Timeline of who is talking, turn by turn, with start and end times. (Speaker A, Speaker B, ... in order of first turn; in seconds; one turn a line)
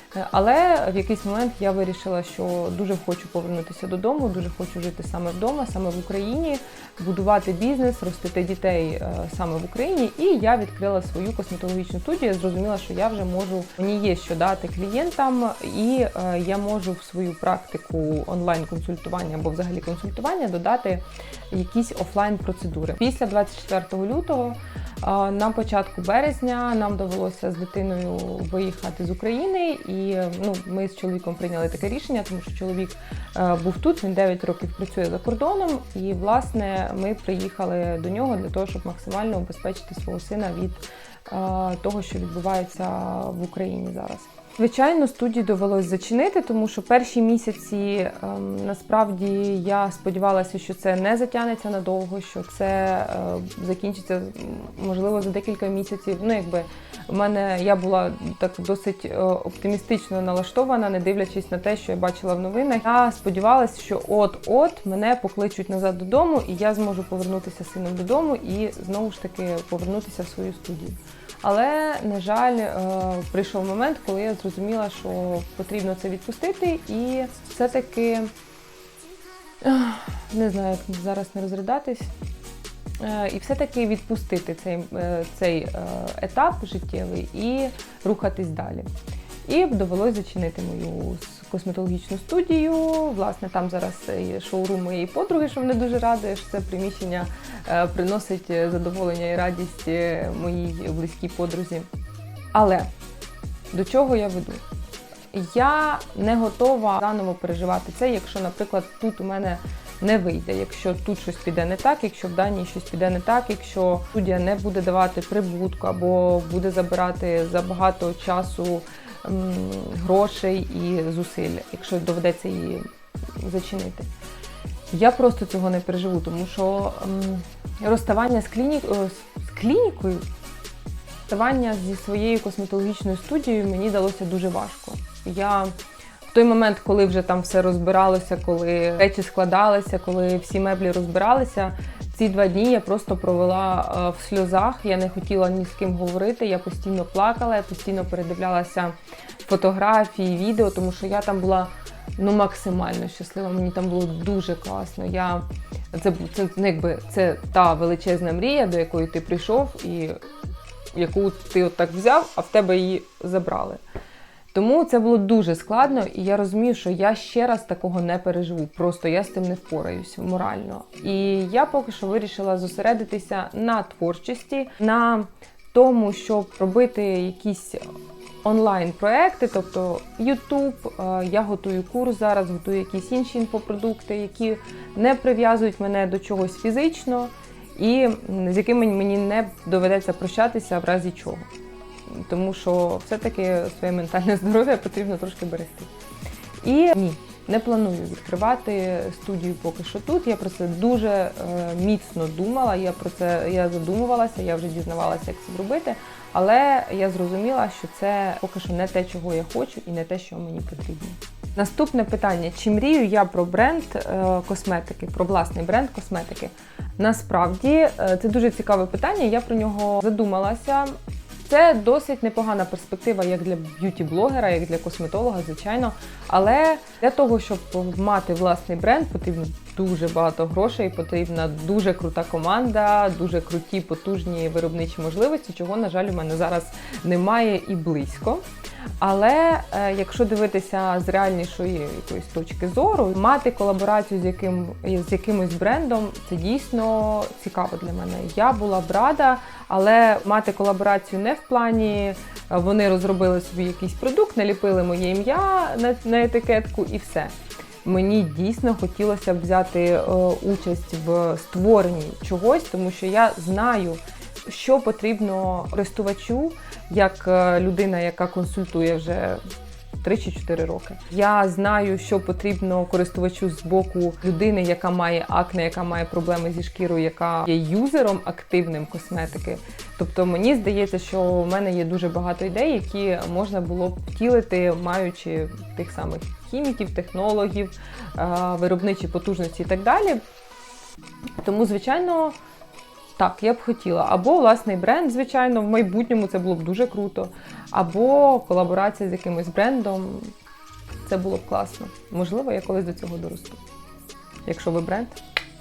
Speaker A: 0.1-78.3
Speaker A: 79.6-82.1
Speaker A: 83.0-88.9
Speaker A: 89.4-101.9
Speaker A: 102.5-102.9
Speaker A: 103.7-104.6
Speaker A: 105.3-122.8
Speaker A: 123.4-124.1
Speaker A: 124.9-130.2
Speaker A: 131.3-135.7
Speaker A: 136.3-160.2
Speaker A: 160.9-163.8
Speaker A: 164.5-177.8
Speaker A: 178.4-191.5
Speaker A: 192.1-195.9
Speaker A: 196.6-238.4
Speaker A: 239.0-269.4
Speaker A: 270.0-290.2
Speaker A: 291.4-292.4
Speaker A: 293.2-300.3
Speaker A: 301.0-303.6
Speaker A: 304.4-305.2